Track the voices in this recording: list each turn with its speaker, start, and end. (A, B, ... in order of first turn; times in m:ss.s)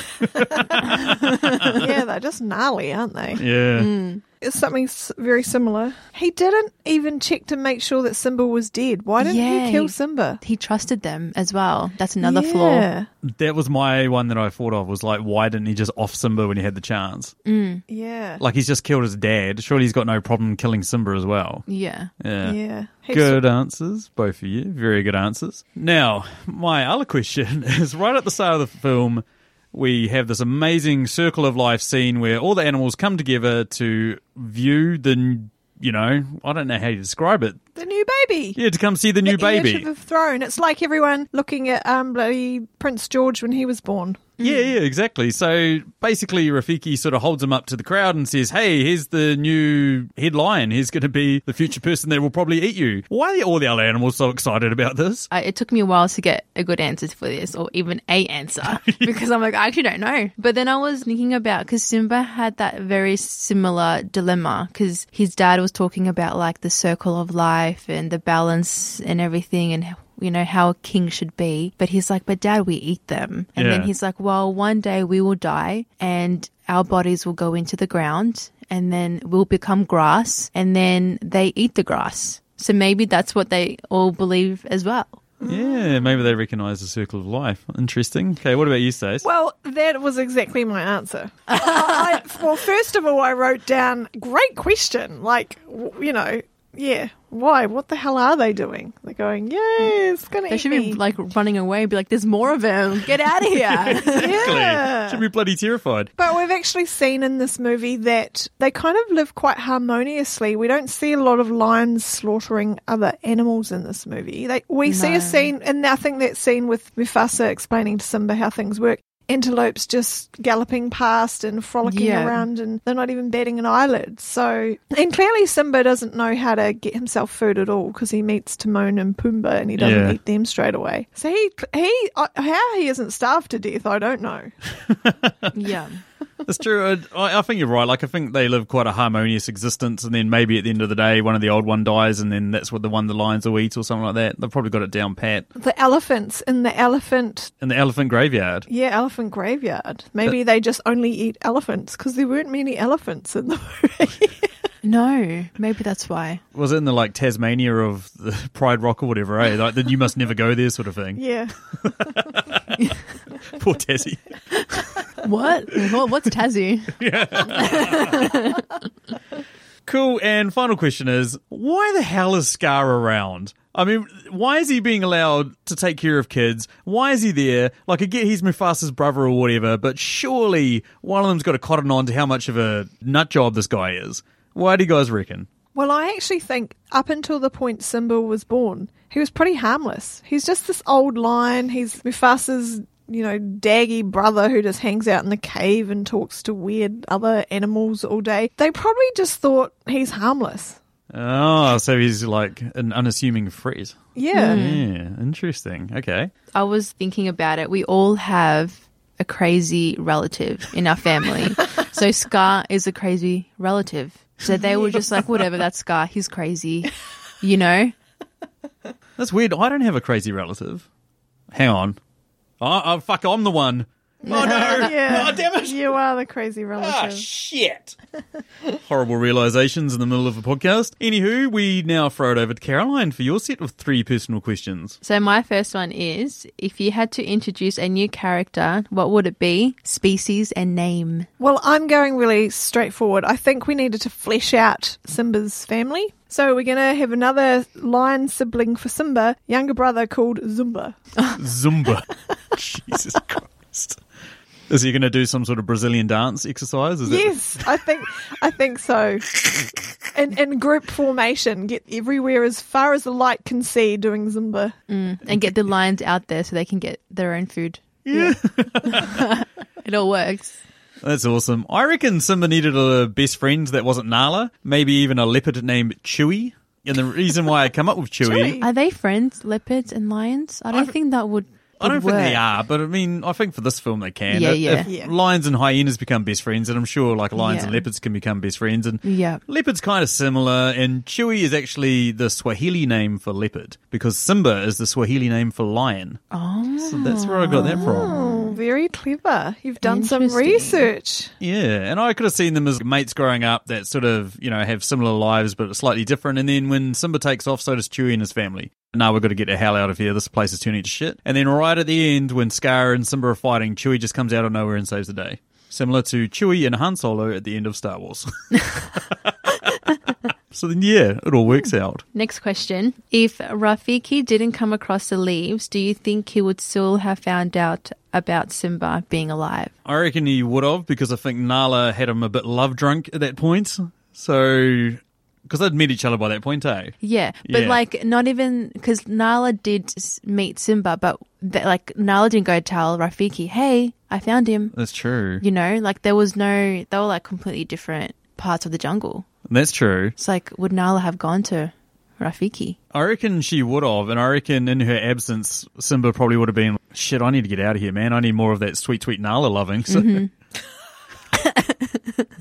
0:00.2-0:01.8 A
0:00.8-0:01.9 B
0:01.7-0:03.4 C
0:03.4-0:03.9 A
0:03.8-0:04.2 B
0:04.4-0:10.4 C
0:09.2-0:12.9 B
0:12.2-0:13.1 C
0:13.2-0:17.3 A
0:17.4-0:17.8 B
0:17.9-0:18.4 C
0:18.4-0:21.6 A
0:21.7-0:22.1 B
0:22.2-0:22.6 A
0:22.4-0:23.4 C
0:23.1-0:37.6 A
0:37.8-0:38.6 C
0:38.5-0:39.9 A
0:39.2-0:44.3 C
0:44.4-0:55.3 A
0:44.4-0:44.7 B
0:55.3-1:25.2 B
0:58.6-0:59.1 A
1:13.6-1:13.9 A
1:25.4-1:26.1 C
1:25.4-1:29.2 A
1:29.2-1:41.0 C
1:31.5-1:32.0 B
1:40.5-1:44.5 B
1:43.7-1:46.1 A
1:44.1-1:45.2 C
1:46.2-2:14.5 C
1:54.8-1:55.5 B
2:01.8-2:02.4 B
2:09.8-2:10.2 A
2:14.8-2:15.5 A
2:15.5-2:16.0 B
2:16.4-2:25.5 A
2:25.6-2:27.5 C
2:27.6-2:28.7 A
2:28.7-2:34.5 C
2:34.8-2:36.4 B
2:36.5-2:41.2 A
2:41.2-2:42.2 C
2:41.8-2:42.8 A
2:43.4-2:44.9 A
2:45.1-2:48.7 B
2:46.9-2:48.3 A
2:49.8-3:05.5 A
3:05.7-3:20.8 C
3:21.1-3:26.3 A
3:24.2-3:24.6 C
3:24.3-3:24.8 B
3:26.5-3:38.0 B
3:34.5-3:35.0 C
3:39.2-3:40.8 A
3:41.5-3:42.0 A
3:42.6-3:45.9 A
3:44.2-3:47.2 C
3:44.6-3:44.9 B
3:46.8-3:48.0 A
3:48.8-3:55.0 A
3:55.0-4:01.3 B
4:01.4-4:11.0 C
4:11.3-4:14.0 A
4:14.7-4:17.6 A
4:17.0-4:19.4 C
4:20.1-4:24.7 C
4:24.9-4:30.6 B
4:28.0-4:29.2 A
4:31.0-4:38.6 A
4:38.2-4:38.7 C
4:38.6-4:42.4 B
4:41.8-4:56.2 A
4:44.3-4:44.9 B
4:44.8-4:45.1 C
4:47.3-4:47.8 B
4:49.0-4:49.4 B
4:56.3-4:58.6 B
4:56.8-4:58.2 A
4:57.5-5:01.3 C
4:59.8-5:00.9 B
5:01.4-5:19.3 A
5:20.5-5:22.0 A
5:22.1-5:29.7 B
5:29.8-5:37.8 A
5:37.0-5:44.7 B
5:44.7-5:45.4 A
5:45.4-5:49.2 B
5:49.5-5:50.1 A
5:50.2-5:52.8 B
5:52.9-6:00.2 A
5:59.9-6:00.3 B
6:01.3-6:02.2 B